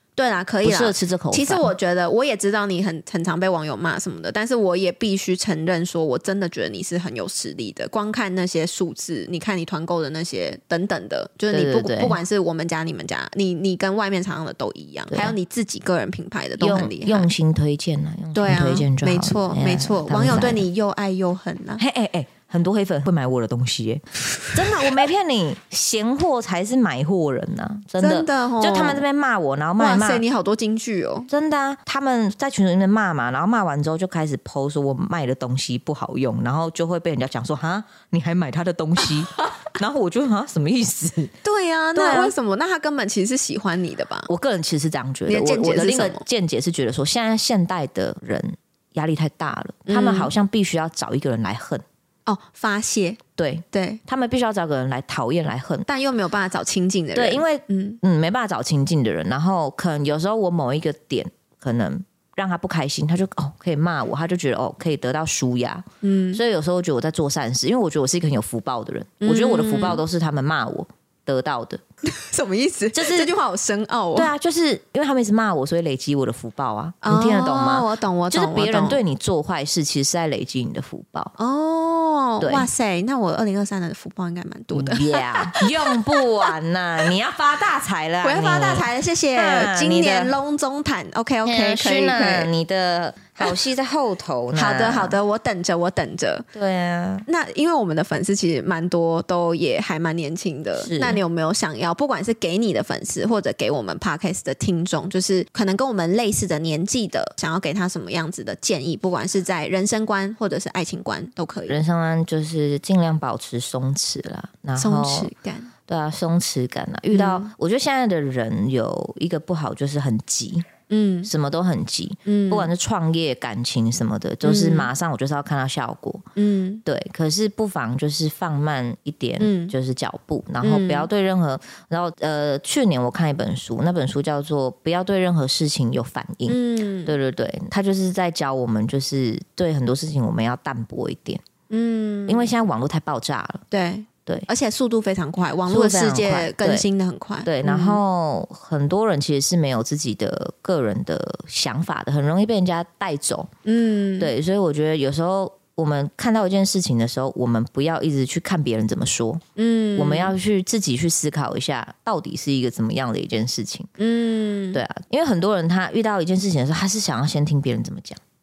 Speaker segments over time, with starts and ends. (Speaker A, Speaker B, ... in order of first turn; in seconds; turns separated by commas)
Speaker A: 0.2-17.3, Speaker B: 0.6-1.7, Speaker B: 11.5-12.2, Speaker B: 16.6-20.6, Speaker A: 18.3-21.8, Speaker B: 21.8-30.2, Speaker A: 28.0-29.0, Speaker A: 29.8-31.3, Speaker B: 31.3-41.3, Speaker A: 41.4-44.3, Speaker B: 41.9-42.3, Speaker B: 44.3-51.8, Speaker A: 45.3-46.2, Speaker A: 49.9-50.3, Speaker A: 52.2-53.2, Speaker B: 53.4-55.9, Speaker A: 53.7-54.0, Speaker A: 55.9-58.0, Speaker B: 57.1-71.8, Speaker A: 66.0-66.4, Speaker A: 69.2-70.0, Speaker A: 72.0-74.3, Speaker B: 72.9-73.3, Speaker B: 74.2-81.3, Speaker A: 77.0-79.0, Speaker A: 81.4-86.2, Speaker B: 82.4-82.7, Speaker B: 84.7-90.3, Speaker A: 88.2-92.5, Speaker B: 91.4-95.2, Speaker A: 94.5-96.5, Speaker B: 96.5-97.2, Speaker A: 97.2-111.8, Speaker B: 100.8-101.2, Speaker B: 111.7-115.3, Speaker A: 114.8-115.7, Speaker B: 115.9-120.7, Speaker A: 117.1-117.5, Speaker A: 120.9-121.3, Speaker B: 121.3-126.2, Speaker A: 122.3-122.7, Speaker A: 124.4-124.9, Speaker A: 126.4-126.8, Speaker B: 126.8-141.4, Speaker A: 129.4-129.7, Speaker A: 130.6-131.1, Speaker A: 136.5-137.1, Speaker A: 141.7-142.5, Speaker B: 142.3-143.6, Speaker A: 143.7-148.0, Speaker B: 145.7-146.9, Speaker B: 147.4-153.5, Speaker A: 153.6-154.3, Speaker B: 154.2-159.4, Speaker A: 159.6-160.3, Speaker B: 159.9-163.9, Speaker A: 164.0-164.8, Speaker B: 164.7-168.2